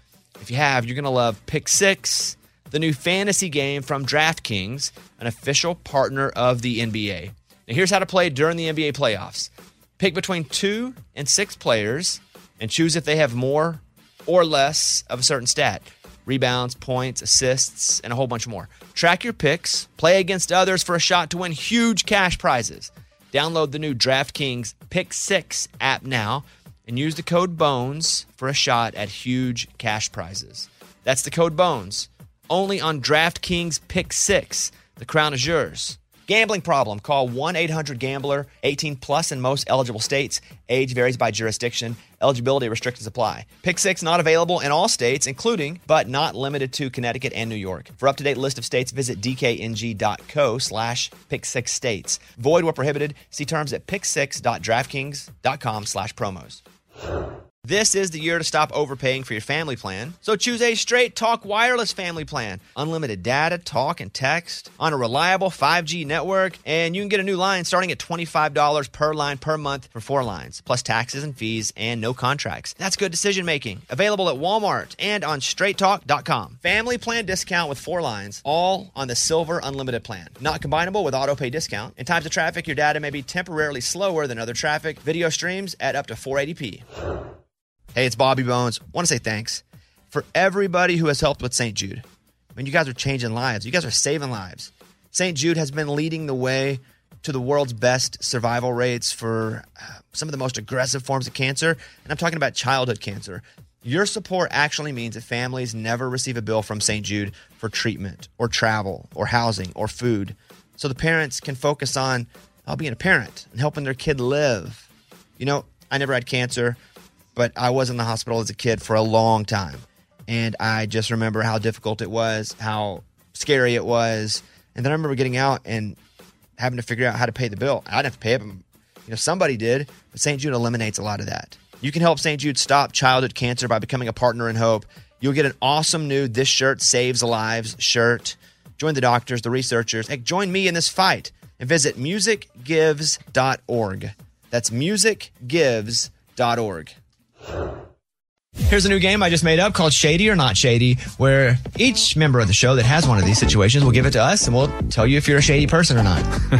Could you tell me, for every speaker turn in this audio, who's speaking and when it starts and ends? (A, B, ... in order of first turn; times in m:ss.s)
0:00.4-0:56.6 A
0:57.6-1:26.8 A
1:27.9-1:32.0 A
1:32.6-1:54.9 A
1:55.4-1:56.8 A
1:57.4-2:06.0 A
2:06.6-2:26.9 A
2:28.7-2:36.3 A